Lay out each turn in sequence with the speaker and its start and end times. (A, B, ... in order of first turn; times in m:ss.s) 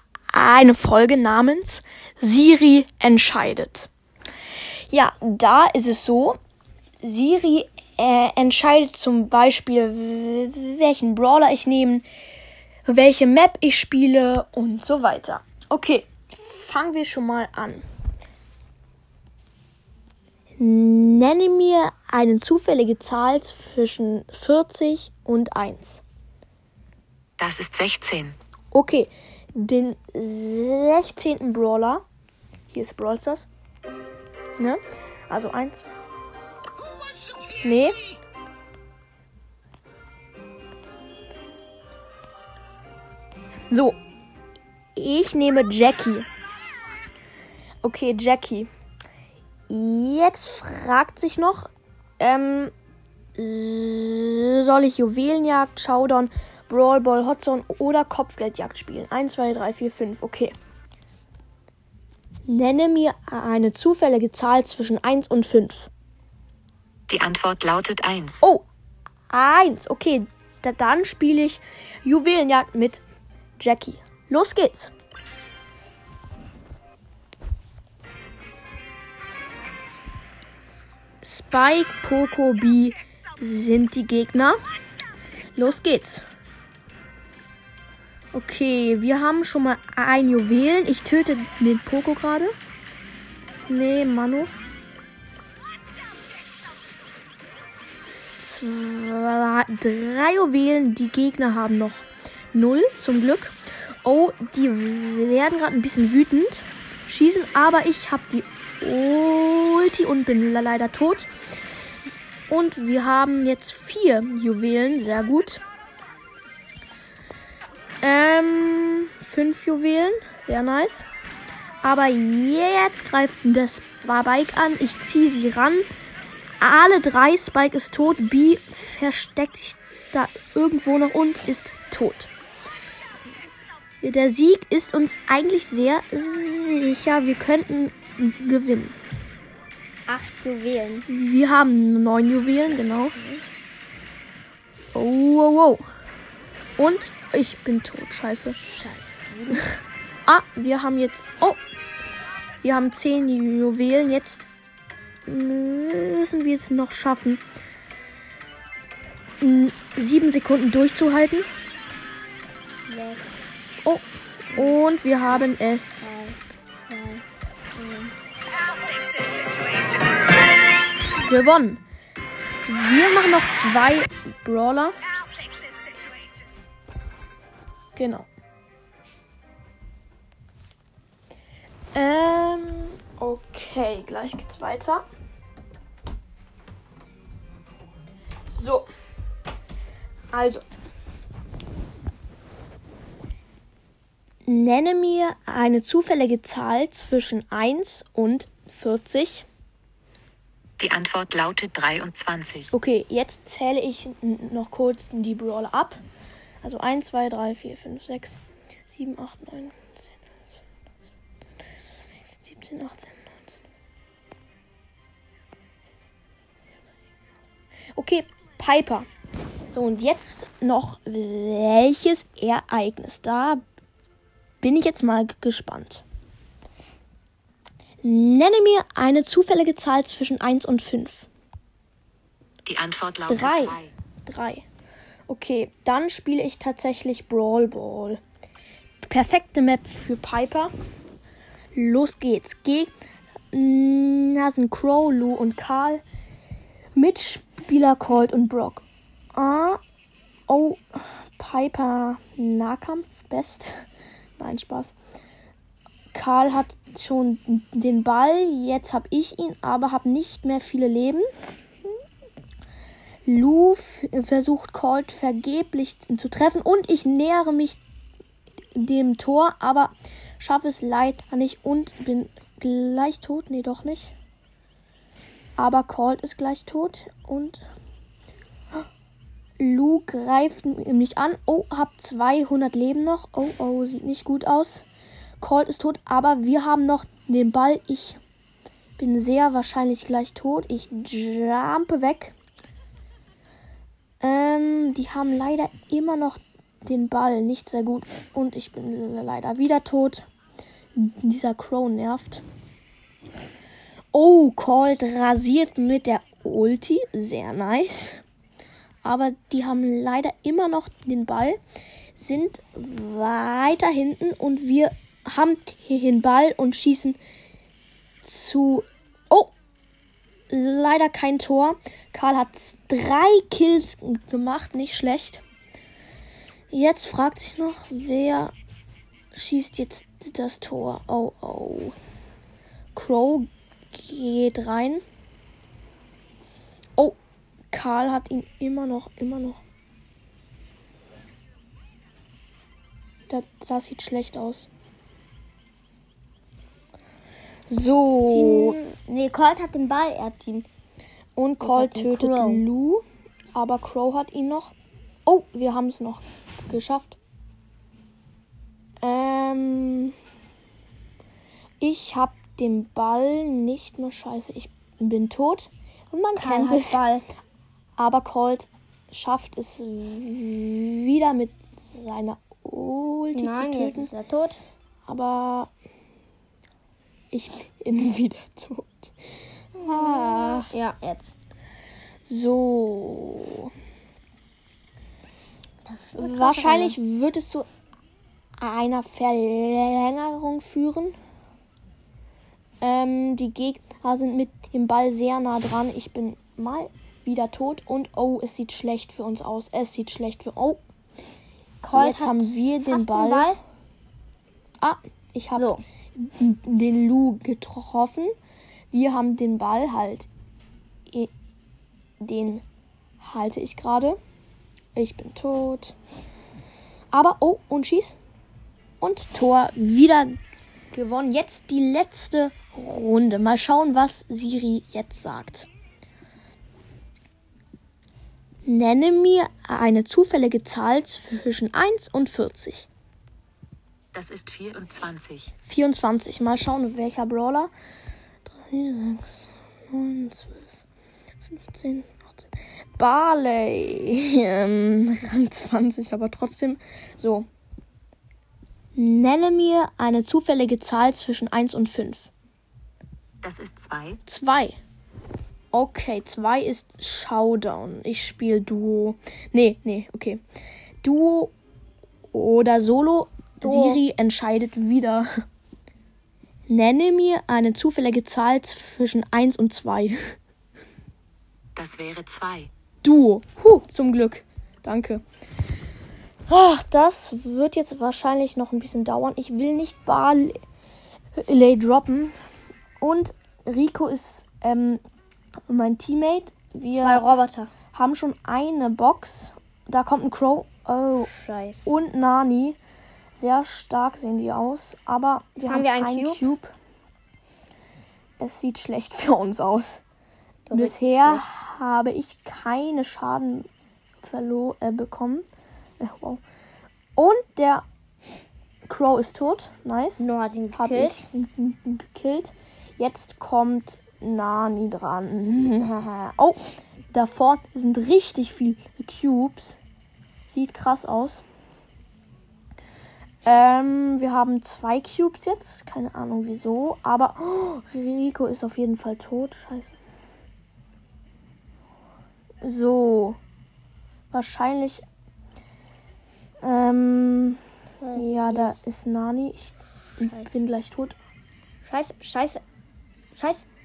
0:00.3-0:03.9 A
0:04.9-0:06.4 A
0:07.0-0:12.1 A
0:12.9-0:17.8 A
0:20.6-0:26.0 A
0:27.4-0:28.4 B
0:28.7-0:32.0 A
0:32.7-0:33.5 A
0:34.6-0:35.9 A
0:37.6-0:38.0 A
0:43.7-0:44.0 A
0:45.0-0:46.3 A
0:47.8-0:48.7 A
0:49.7-0:52.7 A
0:53.4-1:00.5 A
1:02.5-1:05.9 A
1:07.1-1:08.4 B
1:09.3-1:13.0 A
1:13.6-1:14.9 A
1:21.2-1:24.6 A
1:25.6-1:26.3 A
1:28.3-1:32.6 A
1:33.7-1:34.5 A
1:38.4-1:51.3 A
1:52.5-1:55.6 A
1:58.0-2:01.1 A
2:01.8-2:05.9 A
2:06.6-2:12.3 A
2:14.0-2:19.0 A
2:20.1-2:21.1 C
2:21.1-2:23.2 A
2:23.2-2:23.4 C
2:24.9-2:25.8 A
2:26.8-2:28.6 A
2:28.6-2:29.7 C
2:30.3-2:31.6 A
2:32.6-2:34.5 A
2:35.3-2:37.4 A
2:39.4-2:41.5 A
2:42.9-2:43.4 C
2:43.8-2:46.1 A
2:46.0-2:48.1 C
2:51.2-2:51.8 A
2:52.7-2:55.0 A
2:58.0-2:58.3 A
3:01.9-3:05.0 A
3:08.5-3:08.9 A
3:10.3-3:10.6 A
3:14.4-3:19.5 A
3:20.8-3:22.7 B
3:22.7-3:26.0 A
3:26.6-3:30.0 A
3:32.4-3:33.4 A
3:38.0-3:39.1 A
3:39.7-3:43.6 A
3:44.6-3:46.0 A
3:48.0-3:51.3 A
3:52.7-3:53.9 B
3:53.3-3:54.6 A
3:55.3-3:58.2 A
3:59.0-4:00.7 A
4:01.8-4:02.9 A
4:03.5-4:06.0 A
4:07.0-4:08.8 A
4:09.4-4:09.8 A
4:10.5-4:13.9 A
4:14.4-4:14.9 A
4:16.1-4:21.3 A
4:23.3-4:27.8 A
4:28.7-4:34.1 A
4:35.6-4:37.7 A
4:39.6-4:44.8 A
4:45.4-4:48.2 A
4:49.0-4:52.4 A
4:54.2-5:00.3 A
5:01.0-5:02.4 A
5:04.1-5:08.2 A
5:09.0-5:11.6 A
5:12.2-5:17.2 A
5:18.2-5:19.5 A
5:20.5-5:25.4 A
5:26.7-5:28.5 A
5:29.3-5:32.0 A
5:33.0-5:35.0 A
5:37.7-5:39.6 A
5:43.3-5:44.7 A
5:47.7-5:48.8 A
5:48.3-5:50.7 C
5:51.4-5:53.0 A
5:51.6-5:52.6 C
5:53.5-5:54.7 A
5:55.3-5:57.2 A
5:59.0-6:00.1 A
6:01.8-6:07.0 A
6:06.4-6:07.3 C
6:08.0-6:14.1 A
6:13.4-6:14.6 C
6:15.1-6:15.7 A
6:17.3-6:19.1 A
6:19.8-6:21.3 C
6:19.8-6:20.7 A
6:22.3-6:23.7 A
6:25.8-6:27.0 C
6:26.2-6:27.7 A
6:28.6-6:31.2 A
6:32.8-6:40.8 A
6:41.8-6:43.6 C
6:41.9-6:43.5 A
6:44.8-6:48.4 A
6:45.6-6:45.8 C
6:48.9-6:50.3 A
6:52.2-6:52.6 A
6:53.2-6:54.2 A
6:55.0-6:56.0 A
6:57.1-6:58.2 A
6:59.0-7:00.4 A
7:00.9-7:05.7 A
7:08.6-7:12.9 A
7:14.1-7:15.5 B
7:15.7-7:17.7 A
7:18.5-7:20.8 A
7:21.5-7:22.3 A
7:23.0-7:27.5 A
7:29.0-7:32.3 A
7:33.4-7:34.2 B
7:34.3-7:34.8 A
7:35.7-7:40.4 A
7:41.0-7:41.5 A
7:42.3-7:45.4 A
7:43.6-7:44.0 C
7:46.7-7:50.4 A
7:51.8-7:52.7 B
7:53.0-7:55.2 A
7:56.5-8:00.6 A
8:01.4-8:02.3 A
8:03.0-8:05.0 A
8:05.7-8:07.2 A
8:07.0-8:07.7 C
8:07.9-8:11.3 A
8:11.3-8:11.9 C
8:11.8-8:12.8 A
8:13.4-8:16.7 A
8:15.6-8:16.5 C
8:18.4-8:20.0 A
8:20.7-8:21.5 C
8:20.7-8:23.7 A
8:24.2-8:25.4 A
8:26.0-8:26.4 A
8:27.2-8:27.8 A
8:28.9-8:39.8 A
8:30.2-8:31.3 C
8:40.5-8:41.4 A
8:43.4-8:50.0 A
8:52.6-8:53.4 A
8:54.3-8:55.0 A
8:56.6-8:57.6 A
8:58.0-8:58.8 C
8:58.1-9:01.2 A
9:00.2-9:00.5 C
9:01.8-9:02.6 C
9:03.4-9:03.6 C